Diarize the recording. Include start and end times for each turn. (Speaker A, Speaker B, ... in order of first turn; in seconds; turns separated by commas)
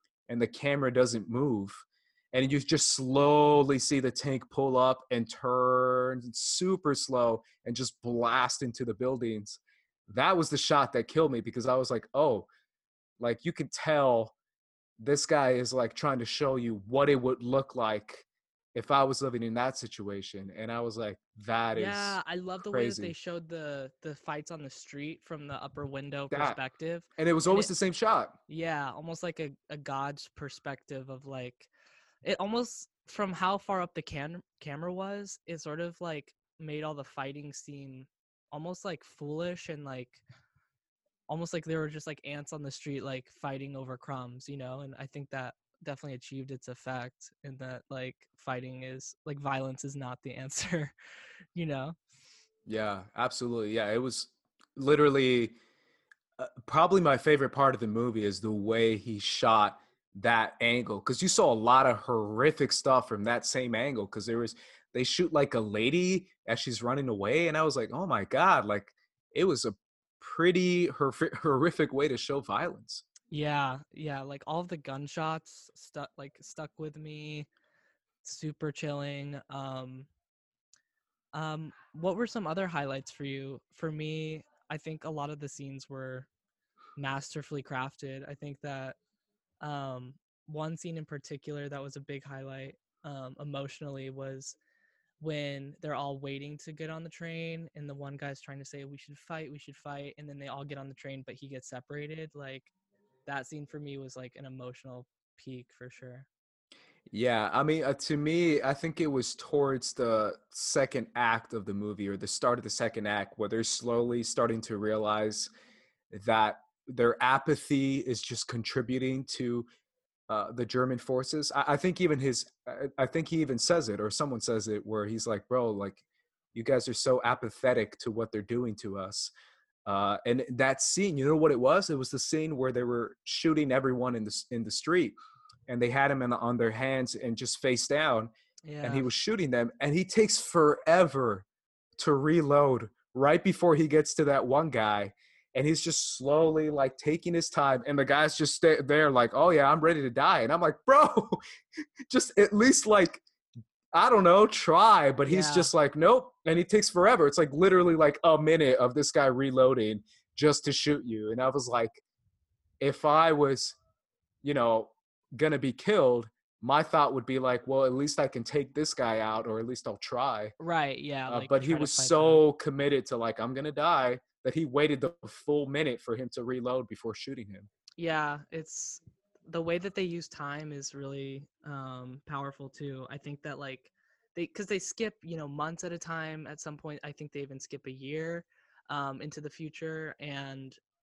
Speaker A: 0.3-12.5, Speaker A: 13.2-14.3, Speaker A: 15.0-23.1, Speaker B: 21.7-27.7, Speaker A: 26.3-26.6, Speaker A: 27.2-28.4, Speaker B: 28.5-31.7, Speaker B: 32.2-40.2, Speaker B: 41.3-51.0, Speaker B: 51.5-52.0, Speaker A: 52.7-55.6, Speaker A: 56.4-73.0, Speaker B: 73.3-77.5, Speaker B: 78.2-80.1, Speaker B: 81.3-86.3, Speaker B: 87.0-89.0, Speaker B: 89.6-94.6, Speaker B: 95.2-102.7, Speaker B: 103.3-106.3, Speaker A: 107.1-115.5, Speaker A: 116.1-119.7, Speaker A: 120.3-126.0, Speaker A: 126.5-129.3, Speaker A: 129.9-135.2, Speaker A: 135.7-138.3, Speaker B: 138.7-139.1, Speaker A: 138.8-141.4, Speaker A: 142.0-151.4, Speaker A: 152.1-153.2, Speaker A: 153.9-162.0, Speaker B: 155.3-155.7, Speaker A: 162.8-163.8, Speaker A: 164.4-170.5, Speaker B: 170.6-172.4, Speaker A: 171.3-177.7, Speaker B: 178.0-190.8